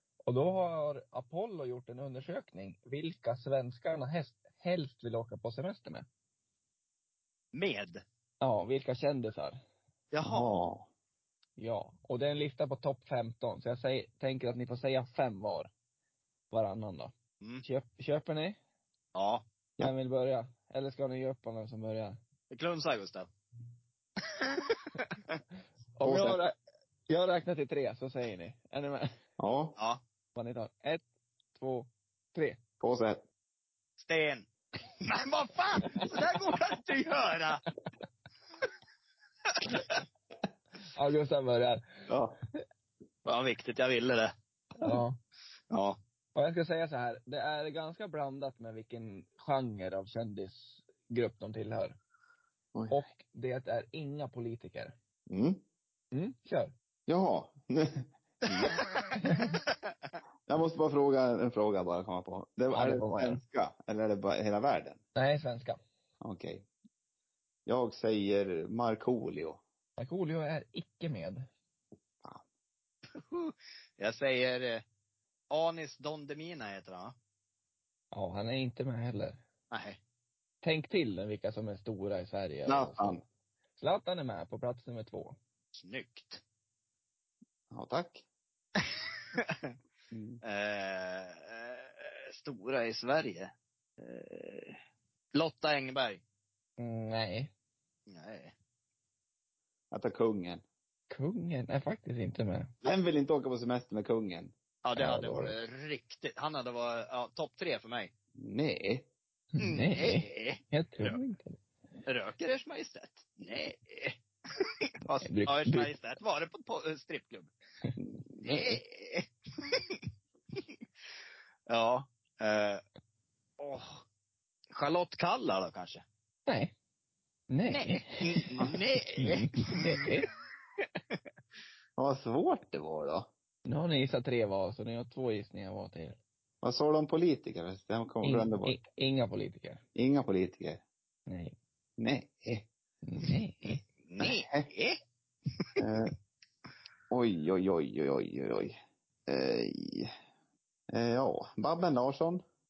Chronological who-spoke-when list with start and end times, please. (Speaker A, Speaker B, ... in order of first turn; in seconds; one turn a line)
Speaker A: 0.2-6.1
Speaker B: 7.5-8.0
Speaker A: 8.4-9.6
Speaker B: 10.1-10.5
Speaker C: 10.2-10.9
Speaker A: 11.6-15.7
Speaker A: 16.5-17.1
Speaker A: 17.6-18.6
Speaker B: 19.1-19.4
Speaker A: 19.8-22.2
Speaker B: 22.5-23.3
Speaker B: 24.4-25.4
Speaker A: 26.0-26.6
Speaker C: 26.0-26.4
Speaker A: 27.1-29.1
Speaker C: 29.4-29.8
Speaker A: 30.4-32.6
Speaker C: 32.8-33.2
Speaker B: 34.0-34.5
Speaker B: 35.0-37.6
Speaker B: 39.5-40.0
Speaker A: 40.9-41.9
Speaker C: 42.1-42.4
Speaker B: 43.2-44.3
Speaker A: 44.8-45.2
Speaker B: 45.7-46.0
Speaker A: 46.4-52.0
Speaker A: 52.9-54.9
Speaker C: 55.3-55.6
Speaker A: 56.1-56.7
Speaker C: 57.1-58.8
Speaker B: 58.5-59.0
Speaker A: 59.2-59.6
Speaker C: 60.5-65.0
Speaker A: 62.7-63.4
Speaker A: 65.2-65.8
Speaker C: 66.2-66.7
Speaker C: 67.7-69.6
Speaker A: 70.0-71.5
Speaker B: 73.2-74.8
Speaker B: 75.5-77.1
Speaker A: 78.1-79.4
Speaker B: 79.7-80.0
Speaker A: 80.6-83.2
Speaker C: 82.7-83.2
Speaker A: 83.8-85.4
Speaker B: 85.8-86.4
Speaker C: 87.7-88.2
Speaker C: 90.1-90.4
Speaker B: 90.4-94.8
Speaker B: 95.3-96.2
Speaker A: 96.8-97.5
Speaker B: 98.1-98.5
Speaker C: 99.9-100.6
Speaker A: 101.1-102.7
Speaker C: 102.8-104.5
Speaker B: 104.8-108.1
Speaker A: 105.0-105.5
Speaker C: 108.4-109.1
Speaker A: 109.6-111.6
Speaker B: 109.6-111.2
Speaker B: 112.1-117.5
Speaker A: 115.2-115.9
Speaker B: 118.4-120.0
Speaker C: 118.5-118.8
Speaker B: 121.7-122.8
Speaker B: 123.6-124.0
Speaker B: 124.7-126.0
Speaker A: 126.5-126.7
Speaker A: 127.5-130.3
Speaker B: 127.7-130.1
Speaker C: 132.0-133.3
Speaker A: 133.7-136.2
Speaker C: 136.6-138.8
Speaker A: 138.2-139.8
Speaker C: 139.9-140.8
Speaker A: 141.3-141.6
Speaker C: 142.0-142.7
Speaker A: 143.0-143.8
Speaker B: 144.0-145.0
Speaker C: 144.2-144.7
Speaker C: 145.8-146.1
Speaker C: 147.1-150.1
Speaker C: 150.9-152.4